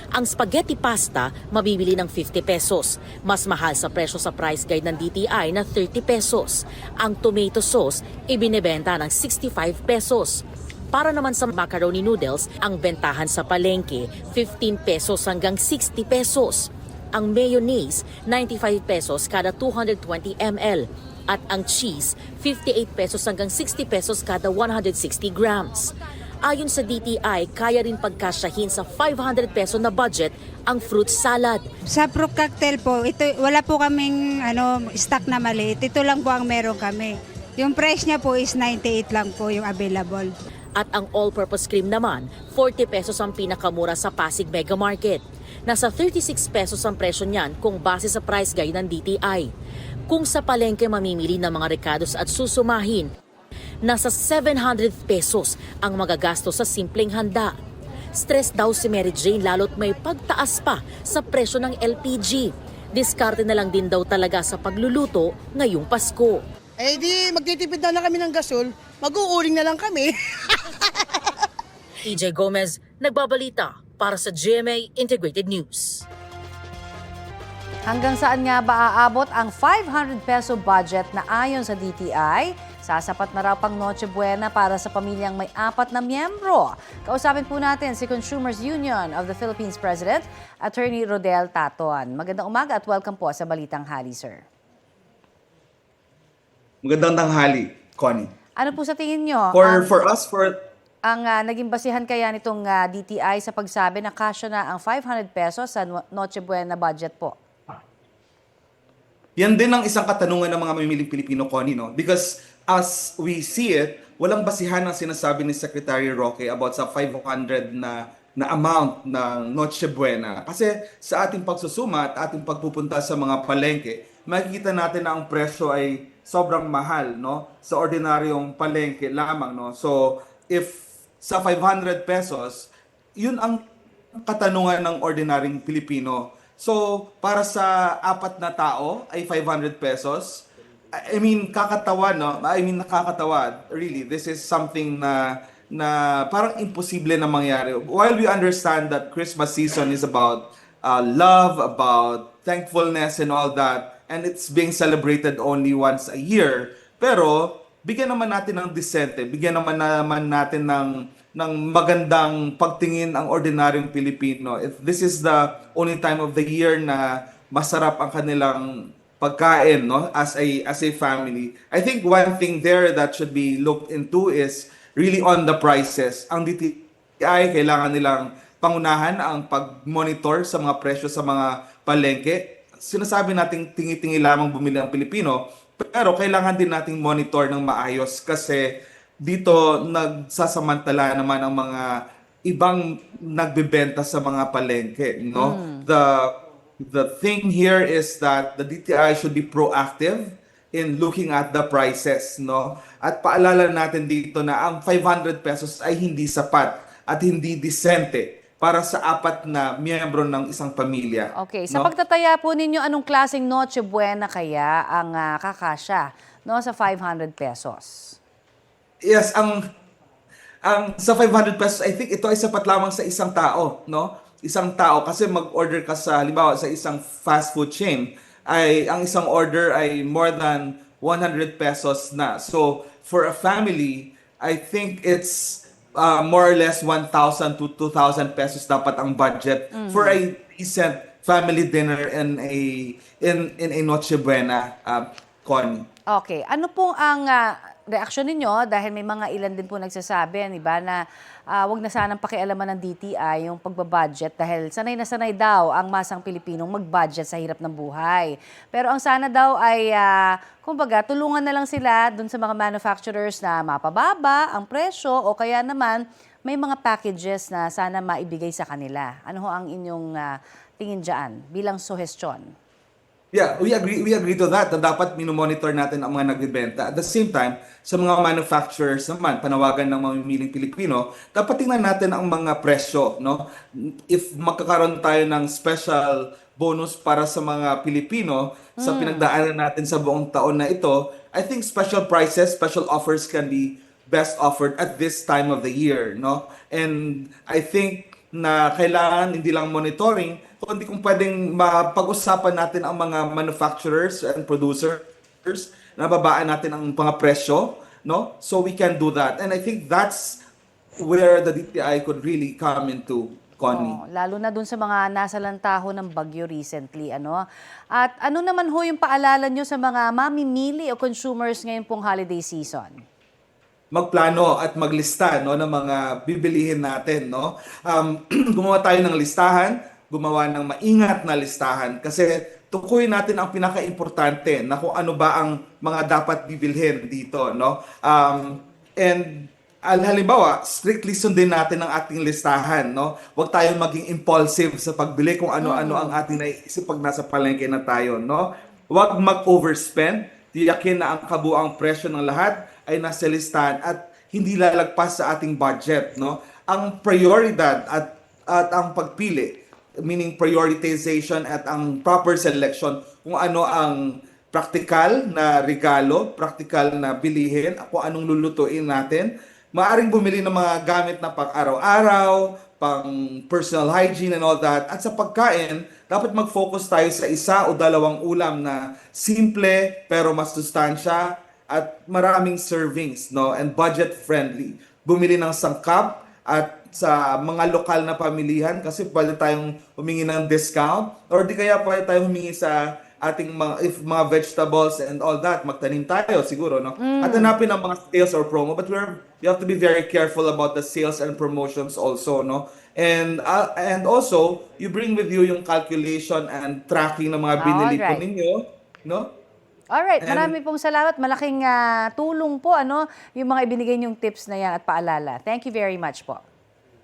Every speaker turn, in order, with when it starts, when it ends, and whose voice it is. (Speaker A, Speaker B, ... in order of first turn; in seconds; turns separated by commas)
Speaker A: 0.1-31.7, Speaker B: 31.9-40.3, Speaker A: 40.8-49.5, Speaker A: 50.1-53.1, Speaker A: 53.8-57.5, Speaker A: 58.1-66.4, Speaker C: 66.8-70.1, Speaker A: 72.0-76.1, Speaker D: 77.9-94.4, Speaker E: 96.8-98.3, Speaker D: 98.6-99.9, Speaker E: 99.5-100.6, Speaker D: 101.1-107.4, Speaker E: 109.4-133.6, Speaker E: 134.2-188.7, Speaker E: 189.2-211.9, Speaker D: 195.4-195.8, Speaker D: 211.3-218.2, Speaker E: 219.1-219.6, Speaker E: 220.7-245.9, Speaker D: 239.7-240.2, Speaker D: 246.1-272.5, Speaker E: 273.3-283.5, Speaker E: 284.1-310.4, Speaker D: 288.8-289.3, Speaker E: 311.0-314.0, Speaker D: 313.7-323.0, Speaker E: 323.9-409.3, Speaker D: 345.6-346.2, Speaker D: 397.0-397.5, Speaker D: 407.6-408.2, Speaker D: 409.9-416.4, Speaker E: 410.2-410.5